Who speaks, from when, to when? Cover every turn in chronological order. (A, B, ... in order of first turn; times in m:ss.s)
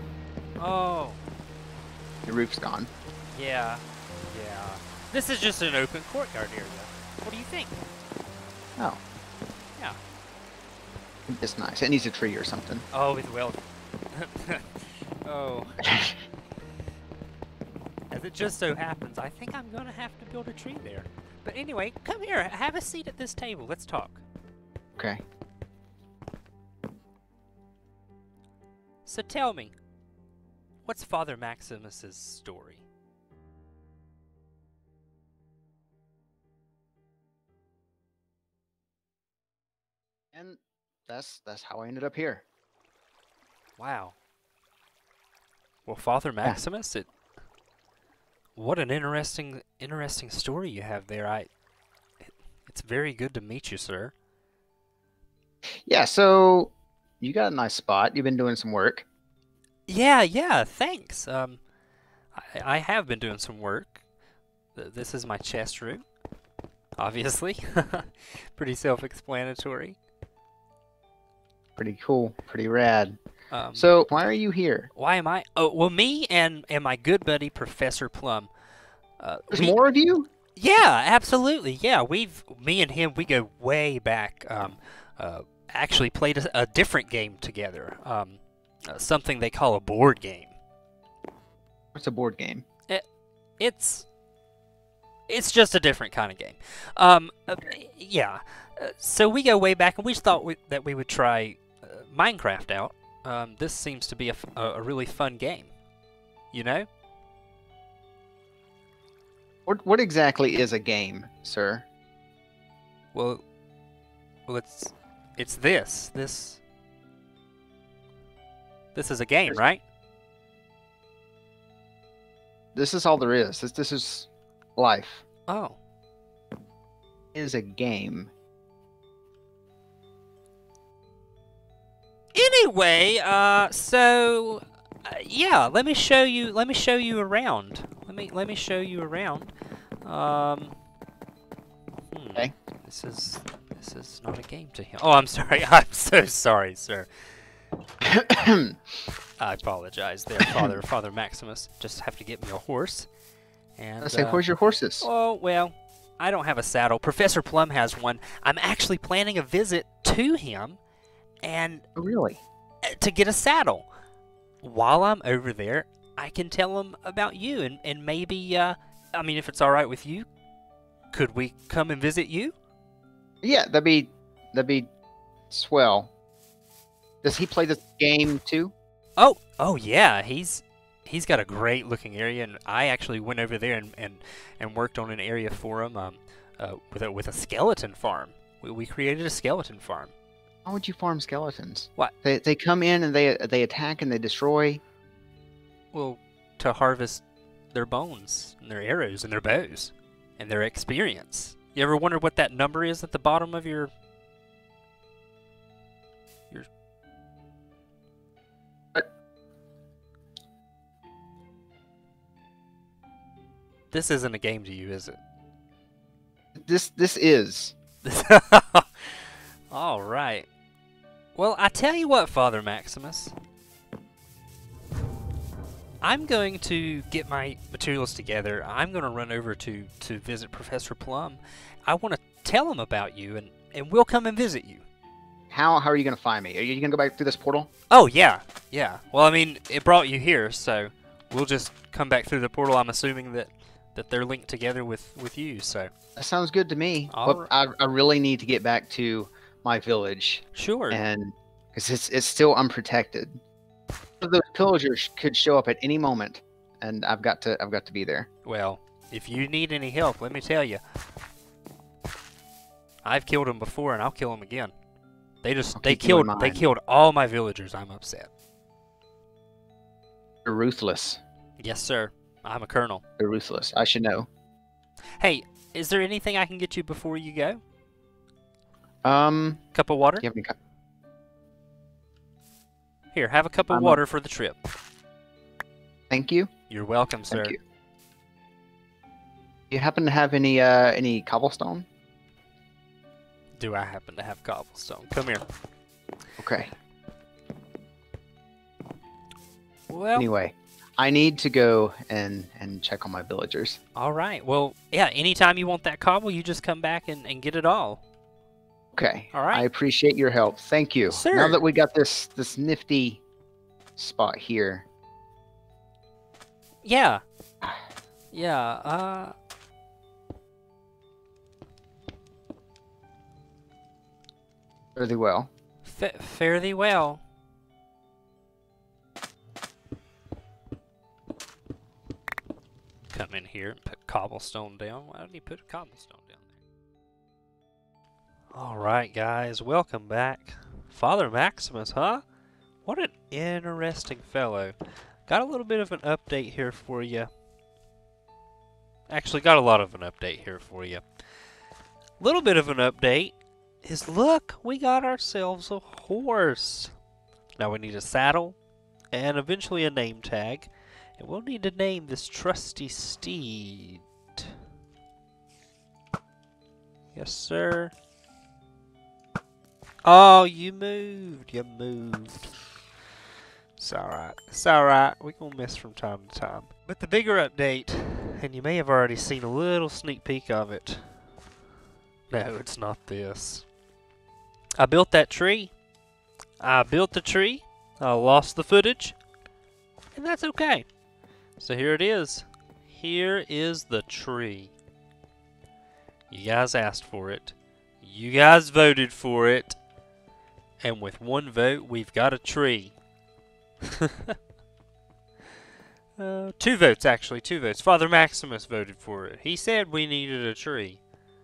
0:00.6-0:01.2 A
0:02.2-0:02.9 B
0:03.3-0:07.8 A
0:11.3-0:12.8 B
0:12.9-0:13.6 A
0:14.1-0:15.8 A
0:15.8-0:16.2 B
0:18.1-0:24.2 A
0:25.0-0:25.2 B
0:29.0-0:29.7 A
0:30.8-0:32.8 A
0:40.3-0:42.4 B
0:43.8-0:44.2 A
0:45.8-0:47.1 A
0:48.6-0:51.5 A
0:52.2-0:54.1 A
0:55.8-0:59.0 B
0:59.9-1:01.6 A
1:02.3-1:04.0 A
1:04.7-1:06.0 A
1:07.0-1:10.0 A
1:11.8-1:13.2 B
1:13.5-1:13.9 A
1:13.7-1:14.9 B
1:14.9-1:18.5 A
1:19.2-1:19.7 A
1:19.5-1:20.3 B
1:20.6-1:30.5 A
1:31.9-1:32.6 B
1:33.6-1:34.1 A
1:35.3-1:45.7 A
1:46.5-1:46.9 A
1:49.7-1:51.8 B
1:53.1-1:53.4 A
1:54.5-1:56.6 A
1:58.9-1:59.8 A
2:02.7-2:05.2 B
2:05.5-2:05.8 A
2:07.3-2:08.3 B
2:12.3-2:19.5 A
2:20.0-2:20.7 A
2:22.1-2:27.1 A
2:28.0-2:28.8 B
2:29.4-2:33.1 A
2:30.4-2:30.8 B
2:33.8-2:34.4 A
2:34.0-2:35.1 B
2:35.0-2:40.8 A
2:41.4-2:41.8 A
2:42.0-2:42.4 B
2:42.8-2:43.9 A
2:44.6-2:50.3 A
2:51.1-2:52.6 A
2:53.4-2:54.9 B
2:55.5-2:56.1 B
2:57.2-2:58.7 B
2:59.2-3:10.1 A
3:10.6-3:14.8 B
3:15.9-3:23.9 A
3:33.9-3:35.2 A
3:36.5-3:37.7 B
3:38.0-3:39.1 A
3:39.7-3:40.5 A
3:41.4-3:43.3 A
3:46.0-3:54.8 A
3:55.5-3:57.7 B
3:57.9-4:05.9 A
4:06.2-4:13.4 B
4:07.1-4:07.5 A
4:10.5-4:11.0 A
4:14.2-4:18.3 B
4:18.4-4:20.8 A
4:23.0-4:24.7 A
4:25.4-4:28.3 A
4:25.8-4:26.6 B
4:30.4-4:31.2 B
4:31.6-4:33.0 A
4:33.2-4:34.3 B
4:35.2-4:37.6 A
4:39.0-4:39.6 B
4:39.7-4:40.2 A
4:40.2-4:40.5 B
4:43.1-4:44.6 A
4:43.7-4:44.0 B
4:46.1-4:46.5 B
4:46.7-4:47.5 A
4:47.3-4:47.6 B
4:49.7-4:51.9 B
4:53.6-4:55.4 A
4:56.4-4:56.7 B
4:59.9-5:00.3 A
5:00.2-5:03.8 B
5:04.0-5:08.0 A
5:08.9-5:13.2 B
5:09.3-5:09.7 A
5:11.1-5:11.6 A
5:14.0-5:14.8 B
5:16.8-5:17.2 A
5:18.3-5:19.3 A
5:25.0-5:25.5 B
5:25.8-5:27.2 A
5:33.1-5:36.5 A
5:38.5-5:42.2 A
5:42.8-5:44.7 A
5:45.3-5:47.3 A
5:49.1-5:51.0 A
5:52.2-5:56.9 A
5:57.6-5:58.6 A
5:59.1-6:04.5 A
6:07.1-6:07.9 A
6:10.0-6:12.5 A
6:13.8-6:21.1 A
6:22.3-6:23.6 A
6:24.8-6:25.7 A
6:26.6-6:29.2 A
6:30.1-6:30.9 A
6:31.6-6:34.7 A
6:36.3-6:39.8 A
6:40.8-6:43.0 A
6:43.8-6:44.3 A
6:46.2-6:51.0 A